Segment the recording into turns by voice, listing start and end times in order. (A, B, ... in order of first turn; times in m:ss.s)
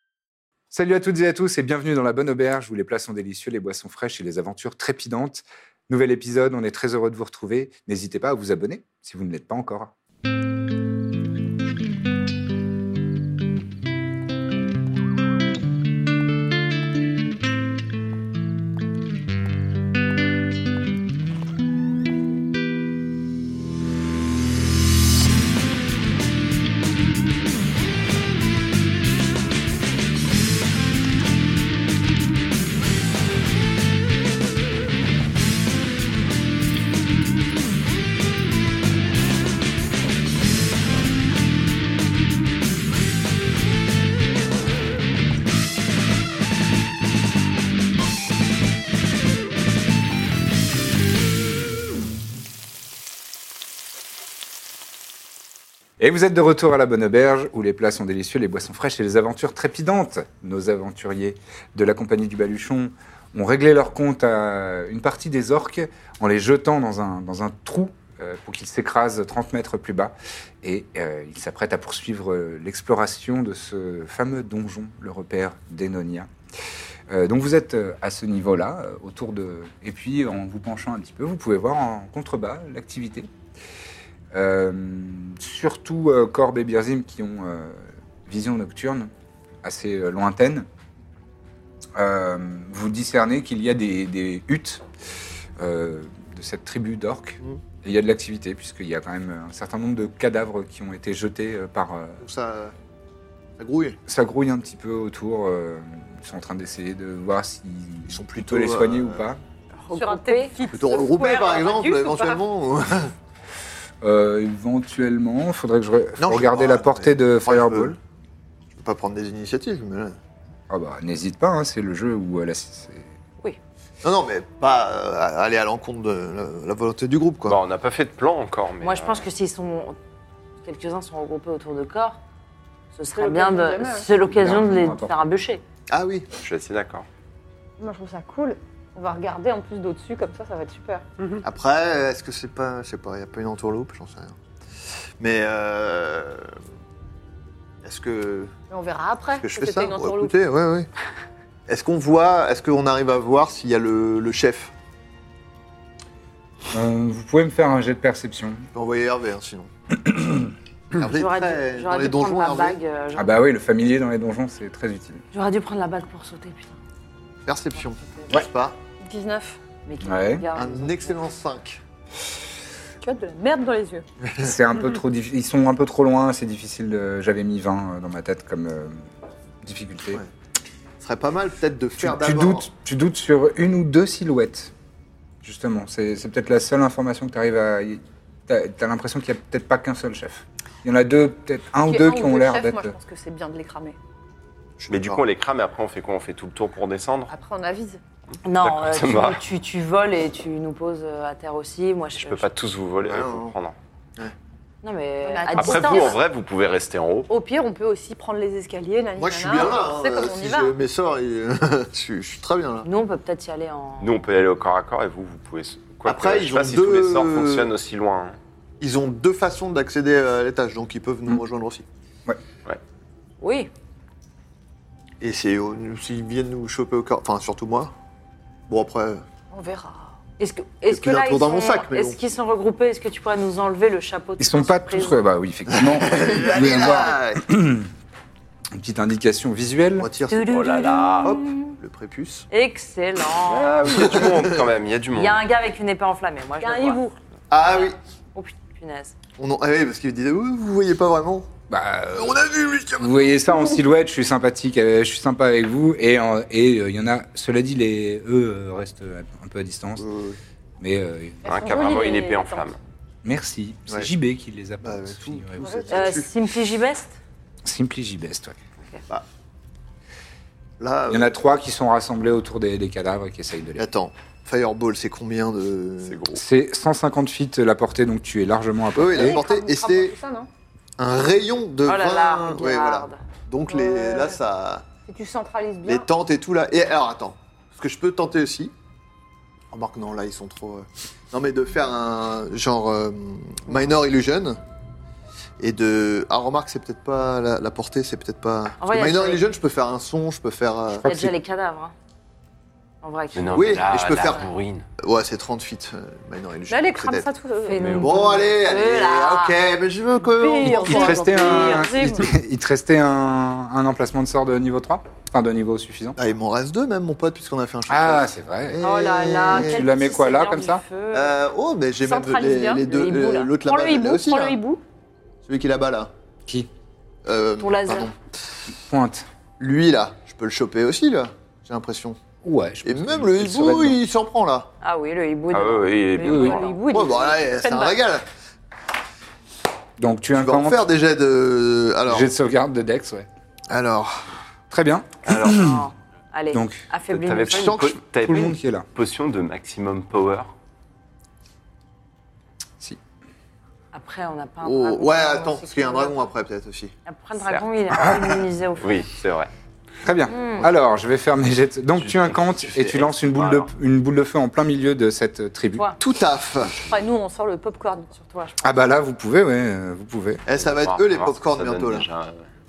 0:00.7-0:09.9 A
0:56.0-1:16.3 A
1:17.1-1:23.3 A
1:24.3-1:29.1 A
1:29.6-1:30.7 A
1:31.9-1:34.8 A
1:35.6-1:42.2 A
1:42.2-1:42.7 B
1:43.6-1:44.0 B
1:44.1-1:49.4 A
1:48.1-1:49.2 B
1:49.8-1:50.6 C
1:49.9-1:52.4 D
1:50.7-1:53.1 B
1:54.0-1:58.0 A
1:56.2-1:58.0 B
1:58.7-2:00.2 B
2:00.7-2:03.1 A
2:04.0-2:07.6 B
2:07.4-2:09.2 E
2:08.8-2:10.0 C
2:10.6-2:12.2 C
2:12.9-2:15.6 C
2:13.1-2:14.1 D
2:14.2-2:15.1 A
2:15.9-2:16.3 B
2:16.4-2:17.0 E
2:17.8-2:21.0 D
2:21.2-2:21.4 E
2:21.4-2:24.4 B
2:25.2-2:26.5 B
2:27.8-2:28.5 B
2:28.7-2:30.3 D
2:29.3-2:30.9 B
2:31.7-2:34.7 B
2:36.7-2:38.7 A
2:38.7-2:39.7 B
2:39.9-2:40.5 A
2:40.9-2:42.8 B
2:41.2-2:43.4 C
2:43.2-2:45.2 A
2:45.3-2:46.8 C
2:47.4-2:48.8 B
2:48.0-2:48.4 C
2:49.0-2:49.6 D
2:49.8-2:51.2 C
2:50.0-2:50.4 A
2:50.5-2:51.8 B
2:53.0-2:54.0 D
2:54.2-2:54.5 B
2:54.4-2:59.0 A
2:59.6-3:00.2 A
3:01.0-3:02.7 B
3:02.0-3:04.7 A
3:05.4-3:13.0 A
3:11.8-3:14.0 D
3:14.8-3:15.2 B
3:14.9-3:17.3 E
3:17.3-3:18.0 D
3:18.4-3:22.5 C
3:18.6-3:19.4 E
3:22.2-3:23.8 E
3:23.0-3:23.6 B
3:24.8-3:26.2 C
3:25.2-3:26.2 D
3:25.6-3:27.3 E
3:27.3-3:30.7 D
3:29.2-3:32.9 B
3:32.8-3:34.2 C
3:34.0-3:38.4 E
3:36.0-3:37.7 B
3:38.8-3:41.8 B
3:43.4-3:43.7 C
3:45.2-3:47.9 B
3:48.7-3:49.2 B
3:49.5-3:50.2 D
3:50.4-3:55.2 C
3:50.9-3:52.2 B
3:54.4-3:57.9 A
3:55.7-3:57.5 B
3:58.7-4:00.1 A
4:00.0-4:00.6 B
4:00.3-4:01.7 C
4:00.5-4:01.4 E
4:01.2-4:02.5 B
4:02.5-4:03.8 C
4:03.4-4:05.4 E
4:03.8-4:04.6 B
4:05.1-4:07.0 C
4:06.6-4:07.2 D
4:07.5-4:08.0 B
4:07.6-4:09.1 C
4:09.4-4:11.5 B
4:11.7-4:12.4 A
4:12.1-4:13.1 B
4:13.0-4:20.0 A
4:20.0-4:20.4 B
4:20.8-4:21.7 A
4:21.4-4:22.7 D
4:21.4-4:22.8 E
4:23.2-4:25.9 A
4:24.8-4:26.3 B
4:25.6-4:26.1 D
4:25.9-4:27.2 C
4:27.6-4:28.6 A
4:30.8-4:31.3 B
4:31.1-4:33.9 A
4:33.8-4:36.4 B
4:36.0-4:36.4 E
4:36.3-4:39.4 A
4:38.9-4:40.1 B
4:39.1-4:40.5 D
4:41.0-4:44.8 B
4:41.8-4:43.2 C
4:43.7-4:44.4 D
4:45.0-4:46.1 D
4:45.8-4:48.7 B
4:49.7-4:54.6 B
4:55.6-5:01.0 B
4:58.8-4:59.4 C
5:00.9-5:01.3 A
5:01.0-5:01.9 C
5:03.0-5:03.9 C
5:03.3-5:04.8 E
5:03.5-5:04.5 B
5:05.0-5:07.3 B
5:06.7-5:07.9 D
5:07.6-5:09.6 C
5:07.8-5:08.1 E
5:07.8-5:11.7 B
5:10.4-5:12.1 C
5:10.4-5:12.3 D
5:10.9-5:16.2 A
5:16.2-5:19.9 B
5:17.9-5:18.8 A
5:18.8-5:21.3 C
5:19.5-5:20.8 A
5:21.1-5:24.6 B
5:22.0-5:23.0 D
5:22.8-5:23.5 C
5:23.6-5:24.8 D
5:25.4-5:26.1 B
5:27.2-5:28.2 B
5:27.6-5:28.1 C
5:28.7-5:29.3 A
5:29.6-5:32.2 B
5:32.4-5:34.0 A
5:32.8-5:34.7 B
5:34.8-5:36.8 C
5:35.5-5:36.6 E
5:36.2-5:36.6 A
5:36.2-5:38.0 D
5:36.9-5:38.2 B
5:40.0-5:40.8 A
5:40.3-5:42.3 B
5:42.1-5:43.3 A
5:43.7-5:44.2 B
5:44.7-5:45.9 A
5:45.2-5:45.6 E
5:45.4-5:47.7 C
5:46.5-5:46.9 A
5:47.1-5:50.5 E
5:47.5-5:48.0 B
5:48.2-5:48.8 A
5:53.9-5:56.3 C
5:54.6-5:56.9 B
5:57.0-5:59.1 C
5:57.4-5:57.6 E
5:58.0-5:58.3 A
5:58.8-5:59.5 E
6:00.0-6:05.9 A
6:00.3-6:00.6 C
6:02.0-6:03.7 E
6:06.0-6:06.9 B
6:06.6-6:07.1 E
6:06.8-6:08.1 D
6:08.1-6:08.7 C
6:08.6-6:10.4 A
6:10.4-6:12.1 B
6:10.5-6:12.5 E